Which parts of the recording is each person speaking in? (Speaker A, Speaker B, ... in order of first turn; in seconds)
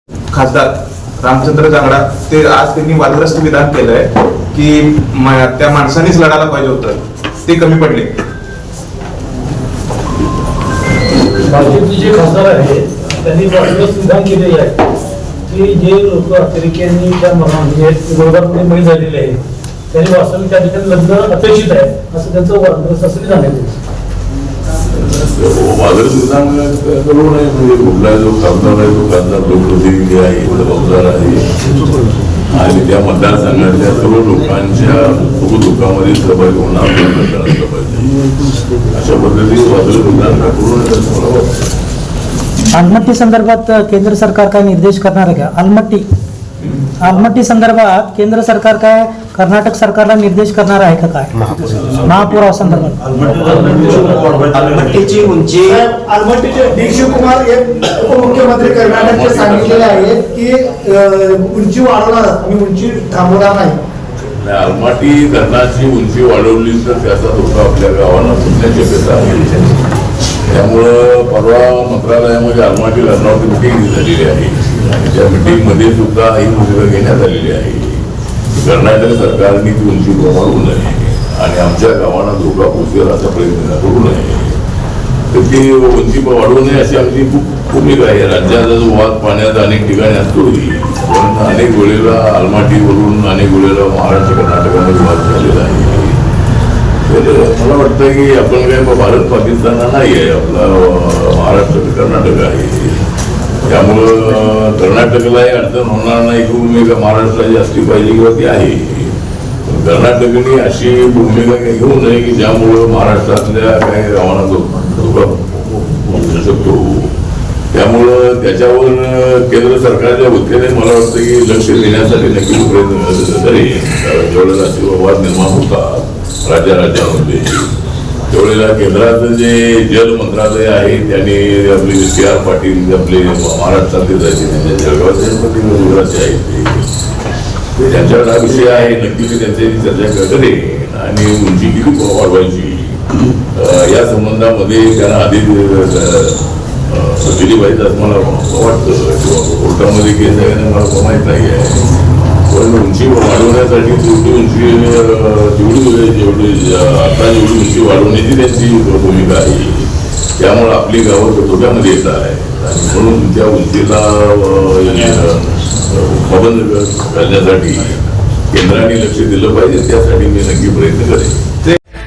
Speaker A: 0.3-8.1
Speaker B: 11.4-14.8, 15.5-23.8, 53.2-54.3
Speaker C: 24.9-31.5, 32.5-38.1, 38.9-41.6, 58.2-60.1, 64.4-69.7, 70.5-84.6, 85.3-96.2, 97.0-103.0, 103.6-117.1, 117.7-127.7, 128.3-136.8, 137.8-143.0, 143.5-151.9, 152.5-159.9, 160.4-171.4
Speaker D: 42.7-46.1, 47.0-51.3, 52.1-53.0
Speaker E: 53.2-55.8
Speaker F: 55.6-63.8